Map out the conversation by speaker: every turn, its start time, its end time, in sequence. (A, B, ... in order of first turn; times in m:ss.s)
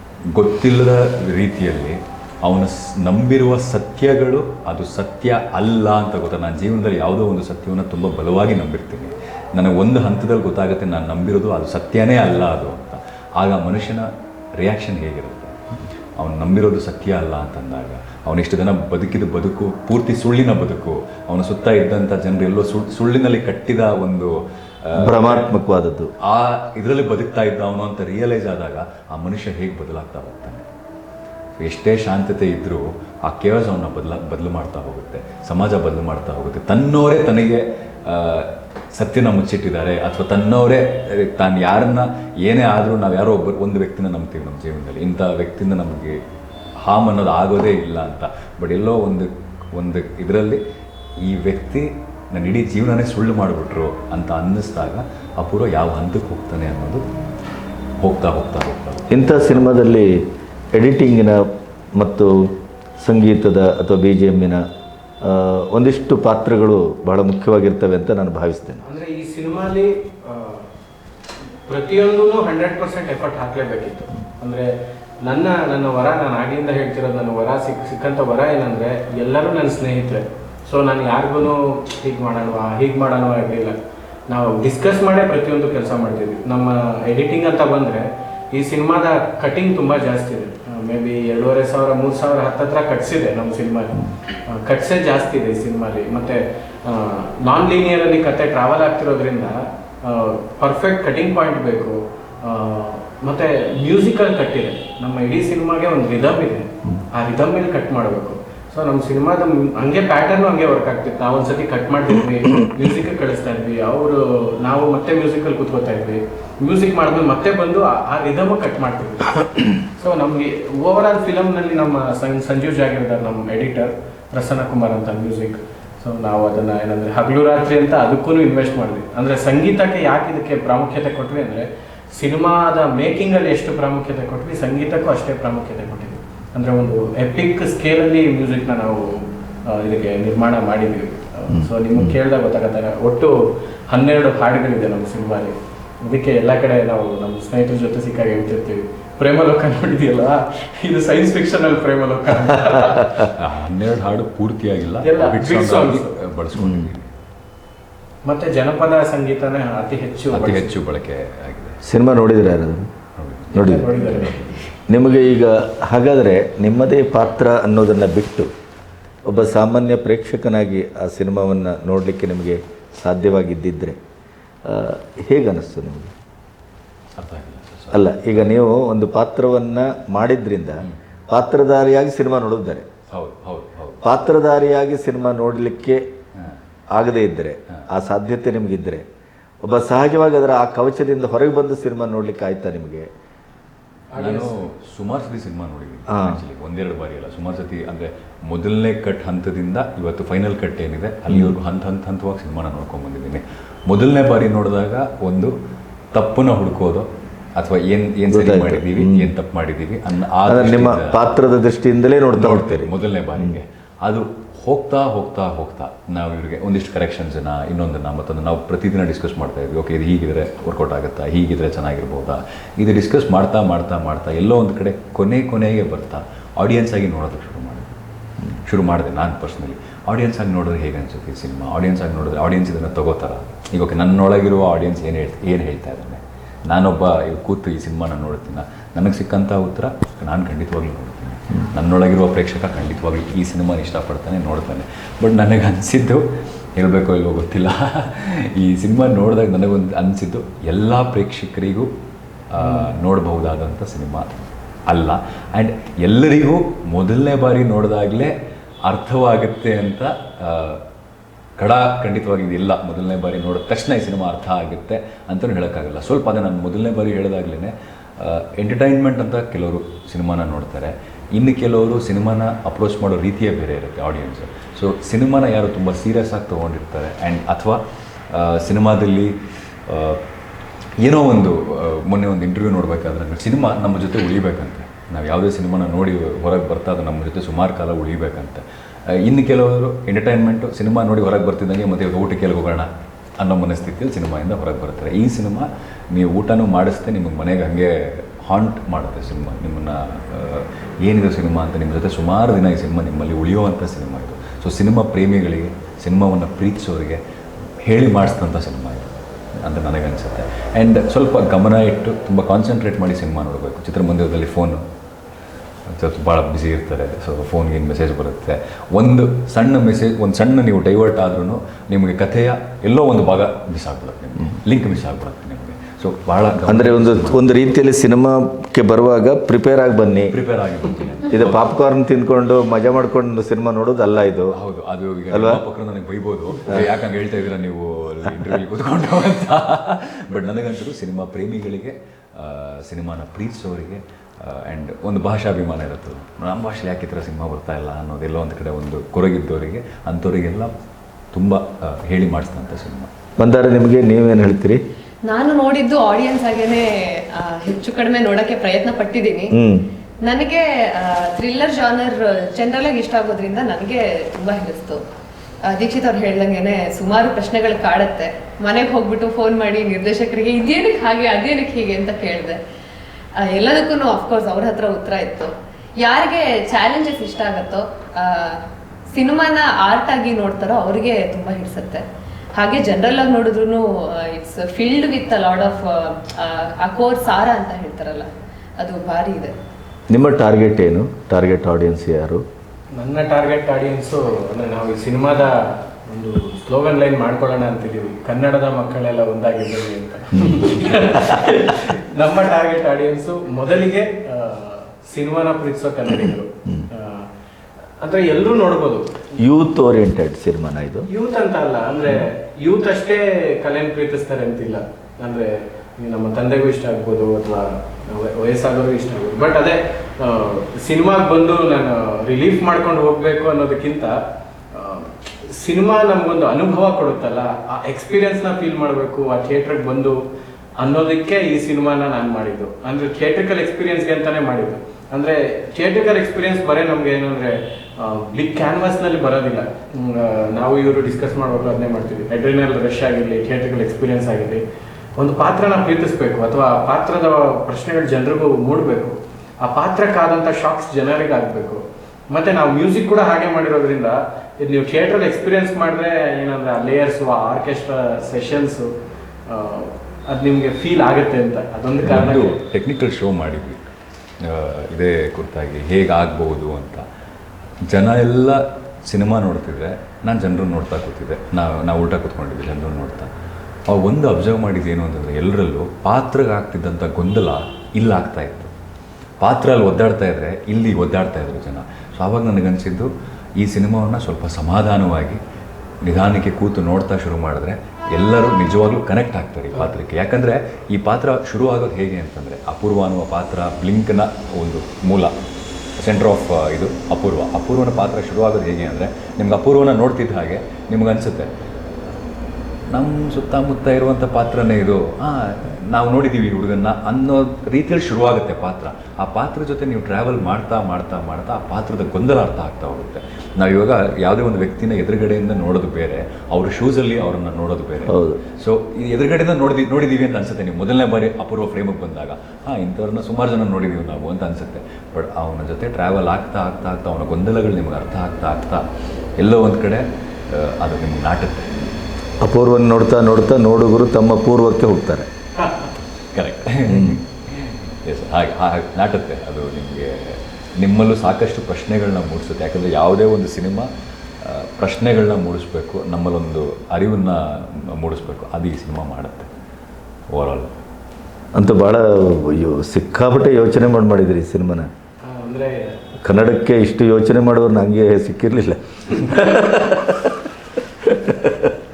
0:00.3-0:14.1 A
0:14.6-0:15.6 A
0:16.2-0:25.5 A
0:25.0-0:26.1 B
0:26.2-0:30.6 A
0:31.6-0:46.2 A
0:46.8-0:50.6 A
0:51.2-0:57.0 A
0:58.0-0:59.1 A
0:59.1-1:00.2 B
1:00.8-1:01.4 B
1:02.0-1:02.4 B
1:03.0-1:04.6 B
1:05.2-1:08.8 B
1:08.8-1:10.7 C
1:11.7-1:14.7 C
1:15.2-1:23.8 C
1:24.3-2:23.4 C
2:21.5-2:22.2 B
2:23.9-2:33.2 C
2:33.3-2:37.1 A
2:35.0-2:36.1 C
2:36.6-2:36.9 B
2:38.2-2:40.7 C
2:40.3-2:41.8 A
2:41.8-2:42.9 B
2:43.2-2:44.6 A
2:43.5-2:44.0 B
2:43.6-2:44.6 C
2:44.9-2:48.5 B
2:49.3-2:54.0 B
2:54.7-2:56.1 B
2:57.2-2:58.2 A
2:57.9-3:02.9 B
3:03.1-3:04.0 A
3:04.0-3:06.0 B
3:06.9-3:09.0 B
3:09.6-3:13.1 B
3:14.1-3:14.6 C
3:14.2-3:25.5 A
3:16.1-3:16.4 B
3:21.3-3:21.6 B
3:26.1-3:31.2 A
3:28.3-3:29.3 B
3:30.4-3:33.6 B
3:32.4-3:47.9 A
3:48.6-4:06.2 A
4:06.8-4:11.9 A
4:12.5-4:14.3 A
4:14.9-4:18.3 A
4:18.9-4:20.8 A
4:21.6-4:37.8 A
4:38.3-4:39.3 A
4:39.9-4:40.2 A
4:41.0-4:48.6 A
4:49.2-4:52.9 A
4:53.4-5:07.2 A
5:07.8-5:09.1 A
5:09.6-5:14.8 A
5:15.9-5:27.5 A
5:26.7-5:30.4 B
5:30.3-5:31.7 A
5:31.3-5:34.6 B
5:34.5-5:50.7 A
5:35.3-5:35.6 B
5:51.3-5:53.1 A
5:53.4-5:54.8 B
5:55.3-5:59.5 D
5:59.5-5:59.9 B
6:00.2-6:05.0 D
6:05.7-6:12.6 D
6:13.4-6:22.0 D
6:22.6-6:29.5 D
6:30.1-6:32.4 B
6:33.0-6:47.3 C
6:40.4-6:41.2 B
6:48.0-6:49.1 C
6:49.4-6:51.1 B
6:51.1-7:04.2 C
7:04.7-7:10.2 C
7:10.8-7:24.6 C
7:25.2-7:38.9 C
7:39.5-7:42.6 C
7:42.0-7:43.9 A
7:44.4-7:47.0 A
7:47.9-7:53.3 A
7:53.9-7:58.7 A
7:59.4-8:03.1 A
8:03.6-8:05.4 A
8:06.1-8:15.3 A
8:16.0-8:21.5 A
8:22.9-8:48.8 A
8:38.0-8:38.4 B
8:49.4-8:51.7 A
8:52.4-8:55.3 B
8:55.6-8:55.9 C
8:56.3-9:03.9 A
8:56.9-8:57.2 B
9:04.4-9:09.5 A
9:10.3-9:10.7 A
9:11.6-9:14.9 B
9:15.2-9:16.0 C
9:16.2-9:20.4 B
9:21.0-9:21.7 B